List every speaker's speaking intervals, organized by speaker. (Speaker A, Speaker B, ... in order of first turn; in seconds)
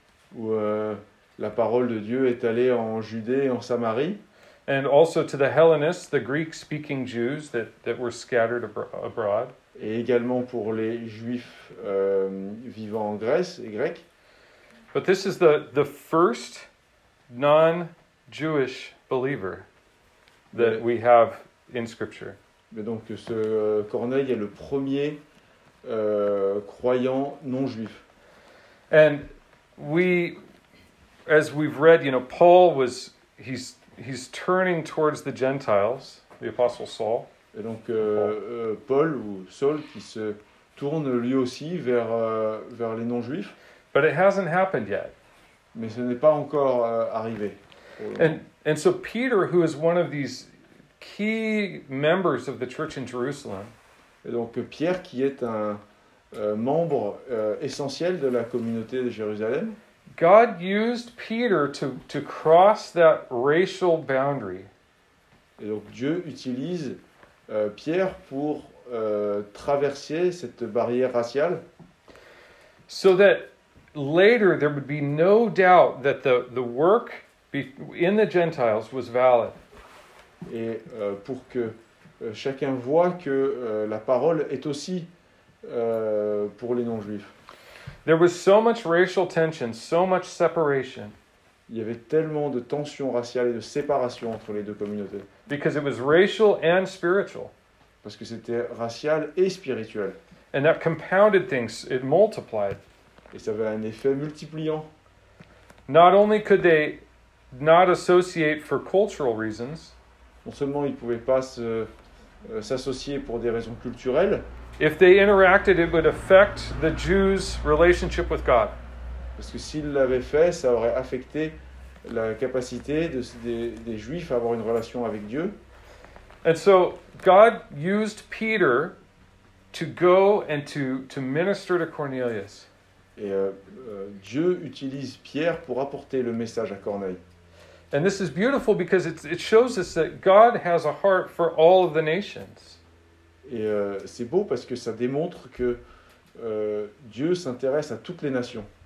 Speaker A: 0.3-4.2, 9.8-14.0, 20.5-20.8, 22.7-25.2, 25.8-28.0, 37.5-43.6, 45.7-48.4, 54.2-59.8, 65.6-71.6, 80.5-85.1, 85.6-87.3, 91.7-95.3, 98.0-100.2, 103.3-104.9, 110.5-111.9, 112.4-114.5, 119.4-125.6, 133.2-137.2, 143.4-145.8, 146.3-148.7
Speaker B: 4.7-9.5, 14.9-16.7, 17.3-19.7, 20.5-22.4, 28.9-30.4, 31.3-37.3, 43.9-45.1, 48.2-50.5, 51.0-53.7, 60.2-64.7, 72.9-79.6, 88.0-91.1, 95.5-97.5, 100.5-102.8, 105.9-109.9, 114.8-118.8, 126.4-129.0, 129.7-132.7, 137.9-142.8